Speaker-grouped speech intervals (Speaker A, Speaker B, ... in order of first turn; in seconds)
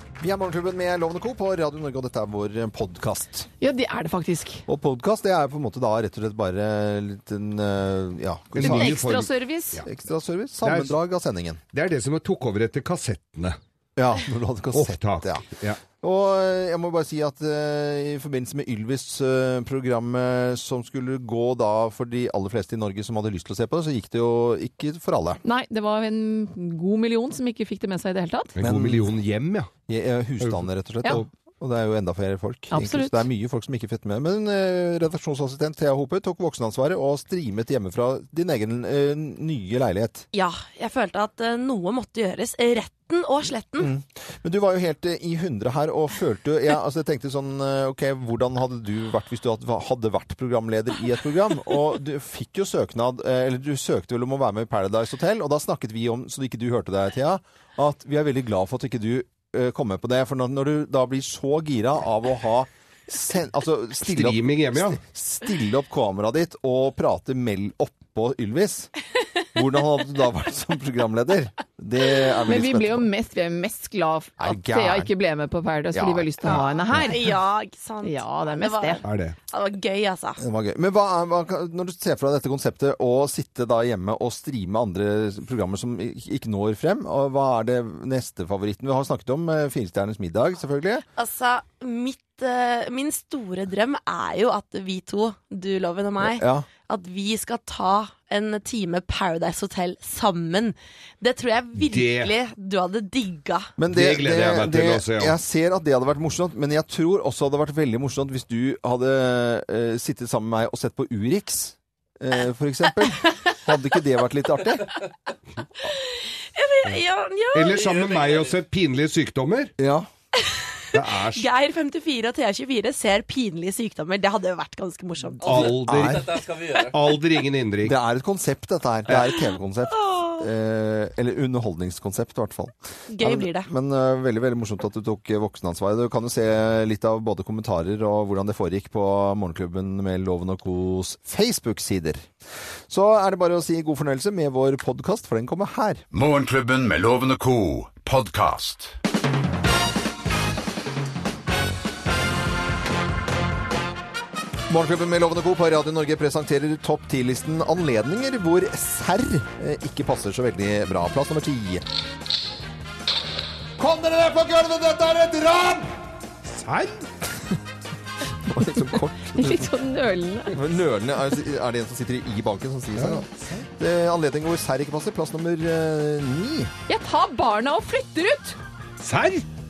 Speaker A: 0.2-3.5, 4.7-9.1, 9.8-11.6, 14.0-25.4, 28.6-29.1, 29.9-40.3, 43.8-68.9, 69.5-73.1, 74.4-75.1, 75.9-77.1, 80.4-91.1, 96.2-96.7, 103.8-115.0, 119.8-120.1, 125.6-126.4, 127.8-142.3, 142.9-146.0, 154.7-161.8, 163.8-165.8, 168.5-169.7, 170.5-173.3, 173.8-176.7
Speaker B: 3.6-4.7, 8.6-9.8, 25.4-28.5, 32.7-33.2, 72.5-77.4, 78.0-79.0, 169.3-170.6, 176.9-178.6
Speaker C: 8.5-9.9, 10.6-10.9, 11.7-13.6, 14.7-15.8, 28.6-29.7, 30.4-31.2, 64.0-65.0, 79.0-79.4, 101.8-102.3, 103.9-105.4, 117.5-119.7, 120.9-121.5, 125.4-128.0, 164.0-165.8, 166.4-167.0, 173.0-173.7, 179.0-179.4
Speaker D: 40.3-43.9, 76.9-80.4, 91.2-103.7, 113.2-113.5, 116.5-118.2, 120.5-125.8, 126.5-126.9, 130.0-130.4, 133.1-133.7
Speaker E: 146.1-148.9